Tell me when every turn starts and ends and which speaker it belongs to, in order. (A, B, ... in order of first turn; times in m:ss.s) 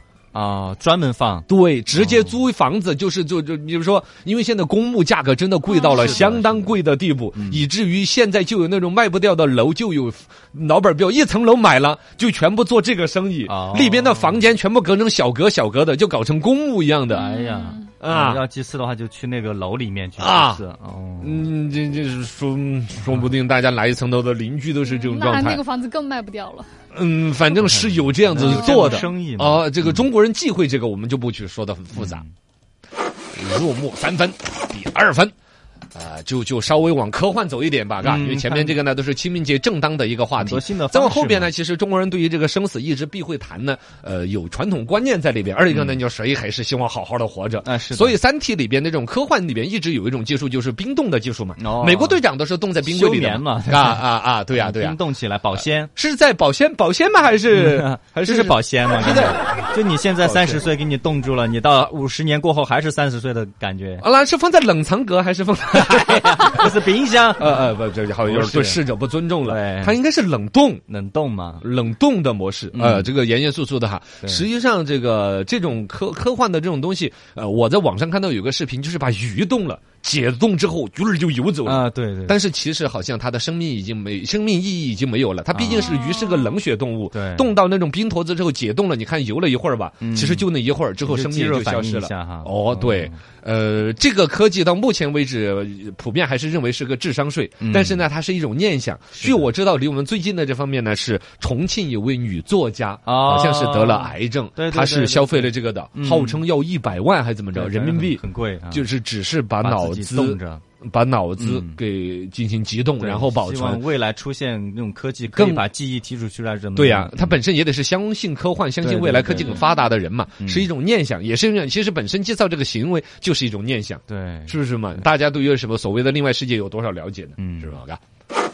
0:00.3-0:02.4 A
0:01.5-0:17.3 B
0:05.7-0:06.2 C
0:05.8-0:06.7 A
0:07.3-0:07.6 A
0:13.5-0:14.5 A
0:17.1-0:17.9 C
0:17.1-0:21.5 A
0:18.0-0:18.4 B
0:20.2-0:20.6 B
0:21.2-0:25.6 B
0:24.8-0:26.7 C
0:26.9-0:32.2 B
0:27.5-0:30.0 A
0:28.6-0:29.1 C
0:31.9-0:32.3 A
0:33.3-0:35.3 B
0:35.9-0:55.0 B
0:38.0-0:38.8 A
0:40.4-0:41.5 A
0:45.7-0:46.0 A
0:47.6-0:48.2 A
0:51.6-0:52.2 A
0:52.8-0:54.0 A
0:54.5-0:55.9 A
0:55.6-0:59.4 B
0:57.5-1:04.0 A
1:00.2-1:00.6 B
1:04.0-1:06.8 B
1:05.7-1:07.6 A
1:07.4-1:10.8 B
1:08.2-1:08.8 A
1:09.4-1:10.0 A
1:10.9-1:11.6 A
1:11.6-1:53.8 B
1:12.7-1:13.1 A
1:21.6-1:22.4 A
1:25.5-1:26.0 A
1:25.8-1:26.6 C
1:27.1-1:27.5 A
1:30.0-1:30.5 A
1:31.0-1:33.2 A
1:37.6-1:38.0 A
1:39.1-1:39.5 A
1:43.0-1:46.4 A
1:47.5-1:48.8 A
1:49.6-1:50.6 A
1:51.4-1:51.8 A
1:53.0-1:57.4 A
1:55.3-1:55.6 B
1:56.8-2:08.0 B
1:58.8-1:59.7 A
2:00.4-2:00.7 A
2:04.1-2:04.6 A
2:07.4-2:07.7 A